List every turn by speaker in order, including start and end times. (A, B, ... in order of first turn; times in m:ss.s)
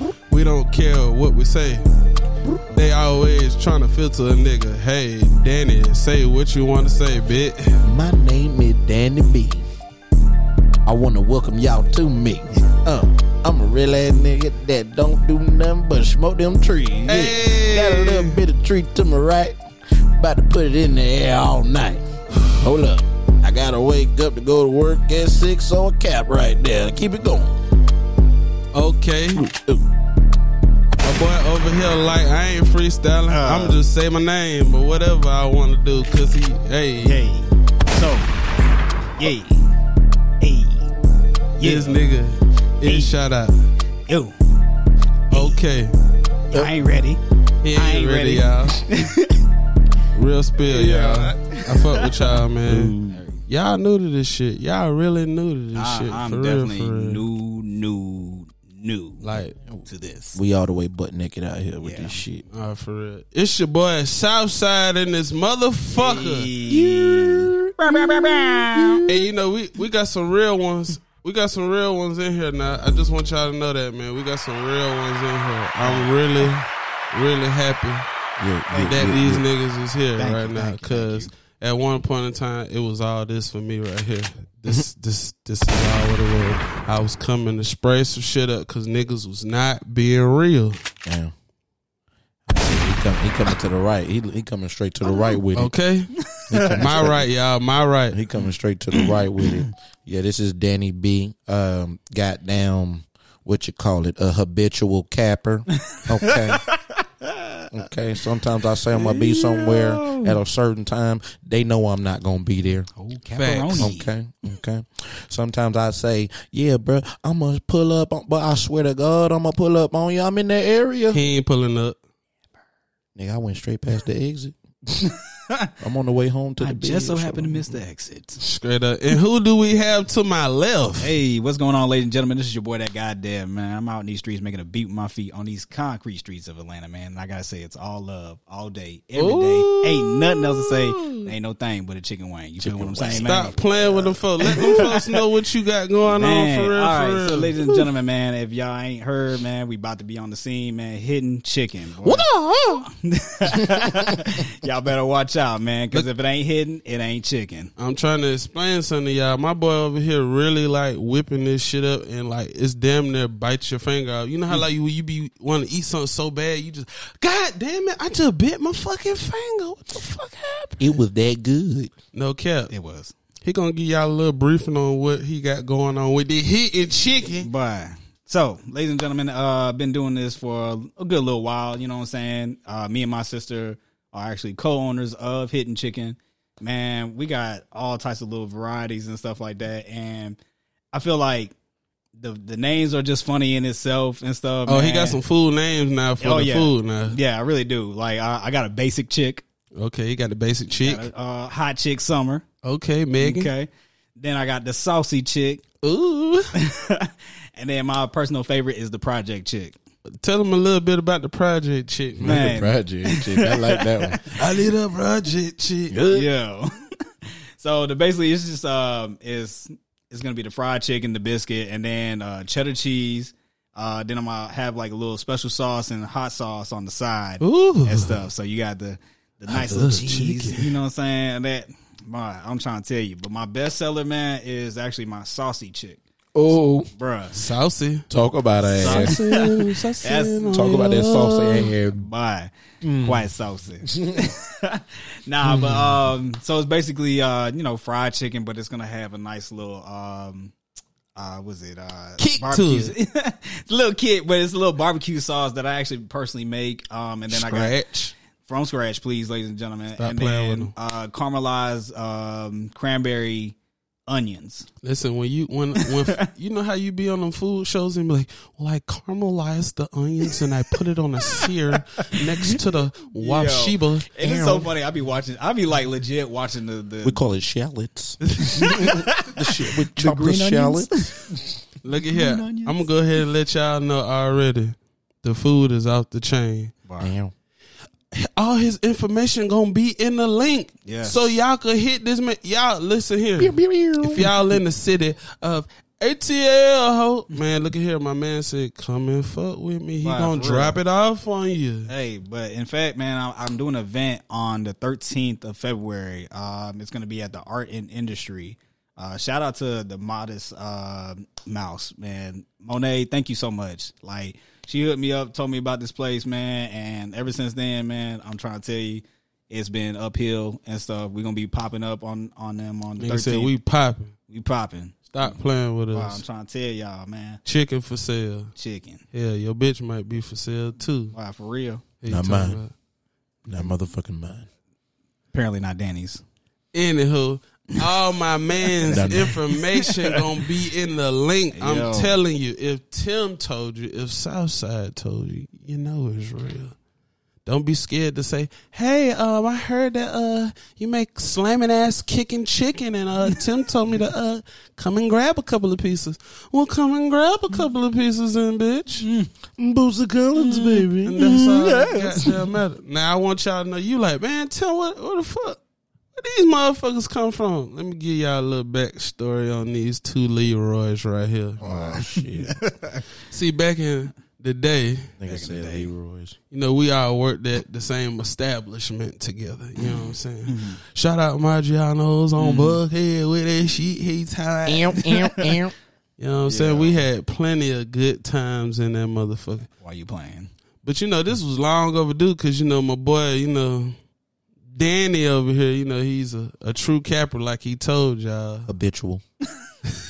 0:00.3-0:01.9 A
0:02.7-0:07.8 A
0:07.8-0:09.6 B
0:10.8-0:27.6 B
0:17.1-0:18.4 A
0:28.7-0:29.4 A
0:29.3-0:29.8 B
0:31.0-0:37.3 A
0:33.3-0:33.8 C
0:37.0-0:38.3 C
0:39.2-0:39.8 C
0:40.4-0:41.0 C
0:41.6-0:42.0 C
0:41.6-0:43.6 A
0:42.8-0:43.2 C
0:44.1-0:44.4 C
0:45.3-0:45.6 C
0:45.3-0:45.9 A
0:46.5-0:47.2 C
0:47.6-0:48.9 A
0:47.7-0:49.4 C
0:50.1-0:53.0 A
0:50.7-0:52.1 C
0:52.6-0:53.2 B
0:53.1-0:53.4 C
0:53.5-0:57.2 A
0:55.7-0:59.3 C
0:59.2-0:59.5 A
0:59.6-1:02.4 B
0:59.8-1:00.4 C
1:01.8-1:02.2 C
1:02.5-1:06.5 A
1:05.9-1:09.0 C
1:06.7-1:09.3 B
1:09.0-1:18.1 A
1:15.8-1:16.1 C
1:18.4-1:19.4 B
1:18.7-1:19.1 C
1:18.8-1:30.8 A
1:20.2-1:21.3 C
1:31.0-1:31.3 B
1:32.5-1:35.7 B
1:35.0-1:35.4 C
1:35.5-1:36.2 A
1:36.4-1:36.7 C
1:36.5-1:37.3 B
1:36.7-1:38.2 A
1:38.1-1:46.6 B
1:38.9-1:39.6 C
1:45.9-1:47.6 C
1:47.7-1:52.9 B
1:48.9-1:50.4 C
1:52.9-1:54.1 C
1:53.4-1:53.9 A
1:53.8-2:01.2 B
2:01.1-2:02.0 A
2:03.2-2:04.6 B
2:05.0-2:05.7 C
2:05.8-2:07.7 B
2:06.6-2:08.4 C
2:08.4-2:11.1 A
2:11.0-2:23.6 C
2:19.2-2:20.1 A
2:22.6-2:24.7 B
2:23.0-2:27.5 A
2:24.4-2:25.2 C
2:26.1-2:32.2 C
2:32.0-2:32.8 B
2:32.8-2:37.7 C
2:33.5-2:34.1 B
2:37.8-2:50.9 A
2:50.8-2:51.9 B
2:52.1-2:52.7 A
2:52.7-2:53.1 C
2:53.4-2:57.5 A
2:57.4-3:10.4 C
3:10.9-3:11.5 C
3:12.2-3:15.2 C
3:14.7-3:17.2 A
3:16.2-3:19.4 C
3:19.8-3:21.1 A
3:20.8-3:22.4 C
3:22.6-3:23.5 A
3:23.2-3:25.6 C
3:25.8-3:26.5 A
3:26.5-3:29.8 C
3:30.2-3:32.6 A
3:32.2-3:34.2 B
3:32.2-3:34.3 C
3:34.3-3:36.0 A
3:35.9-3:36.3 B
3:36.1-3:36.7 C
3:37.2-3:56.0 C
3:47.4-3:48.2 A
3:49.5-3:50.8 A
3:56.3-3:56.9 B
3:56.9-3:57.4 C
3:57.3-3:58.1 A
3:58.1-3:59.2 B
3:58.7-4:00.7 C
3:58.8-4:01.7 A
4:00.5-4:02.0 B
4:01.9-4:10.5 C
4:02.8-4:03.2 B
4:03.8-4:04.2 B
4:11.1-4:17.8 C
4:12.2-4:12.9 A
4:17.3-4:18.1 A
4:18.4-4:23.6 C
4:20.0-4:20.7 A
4:24.1-4:24.7 C
4:24.8-4:34.1 A
4:25.8-4:26.3 C
4:32.1-4:32.6 C
4:33.1-4:37.2 C
4:34.2-4:34.7 B
4:37.0-4:41.0 B
4:38.3-4:41.5 C
4:41.8-4:46.7 A
4:42.0-4:42.9 C
4:47.0-4:47.3 B
4:48.1-5:01.9 A
4:50.8-4:51.4 C
4:53.4-4:54.3 B
5:00.0-5:00.8 C
5:01.9-5:23.5 C
5:23.0-5:24.1 A
5:24.3-5:25.4 C
5:25.1-5:26.2 A
5:25.9-5:27.4 C
5:27.4-5:28.5 A
5:28.6-5:29.0 C
5:29.1-5:31.1 A
5:31.1-5:31.8 C
5:32.0-5:32.7 A
5:32.1-5:32.6 B
5:33.4-5:34.4 B
5:35.3-5:36.2 C
5:36.7-5:46.7 A
5:38.8-5:40.2 C
5:38.9-5:39.4 B
5:41.5-5:42.2 C
5:47.4-5:59.1 A
5:59.0-5:59.3 C
5:59.6-6:01.9 B
6:00.4-6:00.9 C
6:01.0-6:05.6 A
6:01.5-6:02.3 C
6:06.2-6:11.6 A
6:11.6-6:13.0 C
6:11.6-6:12.6 B
6:13.3-6:15.1 A
6:15.2-6:16.4 B
6:15.2-6:15.9 C
6:16.5-6:25.0 A
6:20.5-6:20.8 C
6:22.4-6:22.8 C
6:24.6-6:25.7 B
6:26.2-6:29.7 A
6:26.5-6:27.1 C
6:29.8-6:30.5 C
6:30.8-6:34.0 A
6:34.7-6:38.7 A
6:38.7-6:39.2 B